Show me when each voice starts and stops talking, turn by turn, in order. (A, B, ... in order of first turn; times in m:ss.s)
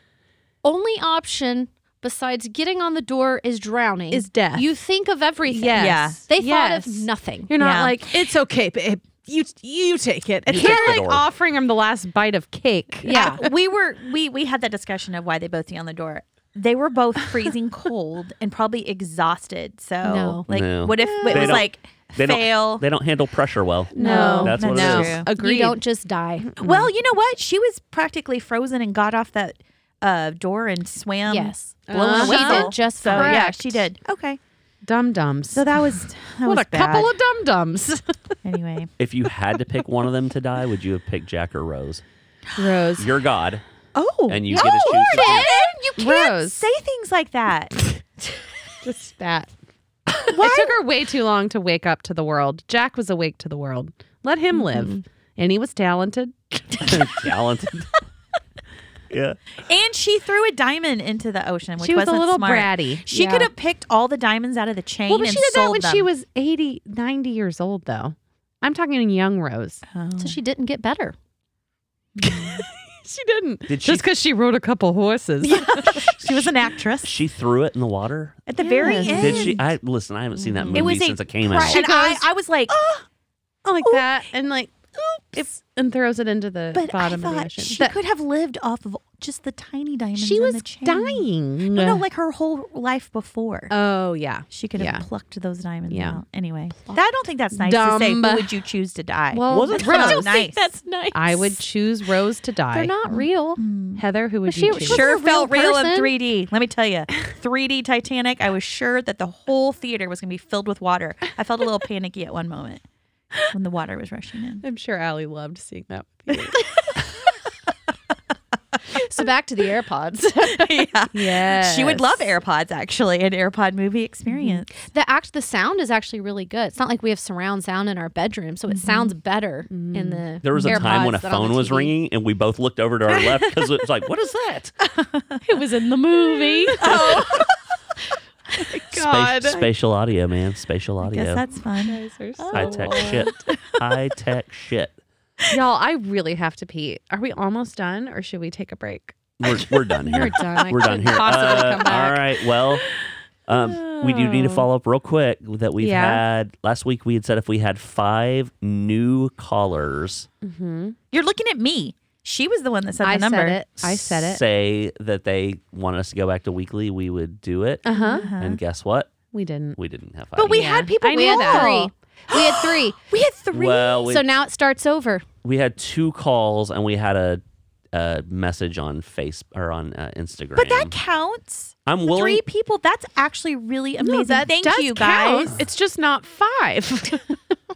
0:00.6-0:07.5 A
0:04.1-0:04.8 B
0:05.5-0:13.3 B
0:05.8-0:06.2 C
0:07.6-0:08.1 C
0:10.5-0:11.3 D
0:10.5-0:10.9 C
0:13.0-0:13.5 A
0:13.1-0:22.8 C
0:20.0-0:20.5 A
0:20.5-0:25.2 D
0:20.9-0:21.6 B
0:23.9-0:25.8 B
0:24.0-0:26.5 A
0:24.0-0:25.3 C
0:26.5-0:26.9 B
0:26.6-0:34.4 C
0:31.3-0:33.8 A
0:31.9-0:33.8 B
0:34.8-0:35.7 B
0:35.5-0:37.1 C
0:36.4-0:38.4 B
0:38.4-0:38.9 C
0:39.0-0:42.0 D
0:42.6-0:43.1 B
0:43.0-0:43.6 D
0:44.0-0:47.9 C
0:44.3-0:45.5 D
0:45.1-0:46.6 B
0:48.8-0:49.5 B
0:50.2-0:57.0 B
0:50.3-0:50.8 C
0:54.7-0:55.0 A
0:56.8-0:57.9 D
0:59.1-0:59.4 D
0:59.6-1:06.1 C
1:01.8-1:03.5 B
1:05.1-1:09.8 B
1:09.9-1:10.4 C
1:10.2-1:11.2 A
1:12.2-1:12.6 C
1:12.2-1:16.5 B
1:13.7-1:14.0 D
1:15.4-1:17.1 C
1:17.0-1:21.8 D
1:18.5-1:19.6 C
1:18.6-1:19.6 B
1:18.6-1:19.1 A
1:20.5-1:21.0 B
1:20.7-1:22.8 C
1:21.5-1:23.0 B
1:23.6-1:28.0 B
1:23.8-1:24.1 C
1:26.7-1:33.7 C
1:30.2-1:32.0 B
1:33.7-1:35.1 B
1:34.5-1:40.6 C
1:35.9-1:36.2 B
1:37.5-1:38.6 B
1:39.3-1:40.4 B
1:39.5-1:40.0 D
1:39.8-1:41.6 A
1:41.1-1:43.2 B
1:42.7-1:43.6 A
1:43.1-1:44.0 C
1:44.0-1:45.0 B
1:44.5-1:46.1 A
1:44.7-1:52.8 C
1:53.5-1:54.6 C
1:54.6-1:56.6 B
1:56.3-1:56.9 C
1:58.9-2:00.9 A
2:00.4-2:04.7 C
2:01.1-2:02.3 B
2:04.3-2:04.6 B
2:04.8-2:11.9 A
2:08.7-2:09.1 C
2:09.7-2:11.2 B
2:10.4-2:14.8 D
2:14.9-2:15.4 C
2:15.4-2:17.2 A
2:16.1-2:17.5 B
2:16.8-2:17.6 C
2:18.6-2:19.7 B
2:18.9-2:21.4 D
2:21.0-2:22.0 C
2:21.8-2:23.6 B
2:22.4-2:23.1 A
2:22.5-2:25.0 D
2:25.5-2:29.6 B
2:29.4-2:32.8 D
2:30.0-2:32.2 A
2:31.1-2:31.6 B
2:33.5-2:40.3 D
2:33.5-2:34.7 B
2:35.8-2:36.2 B
2:40.4-2:41.0 B
2:41.1-2:43.6 C
2:43.0-2:44.4 B
2:43.8-2:47.9 D
2:47.8-2:48.3 B
2:47.9-2:48.3 A
2:47.9-2:48.6 C
2:48.4-2:49.2 D
2:49.3-2:49.8 B
2:49.8-2:50.8 D
2:50.4-2:54.1 C
2:50.5-2:51.9 B
2:51.1-2:53.0 A
2:53.5-2:54.2 D
2:54.1-2:55.3 A
2:55.4-2:57.4 D
2:57.9-3:01.0 D
3:00.6-3:05.6 C
3:01.9-3:02.4 D
3:04.0-3:07.4 B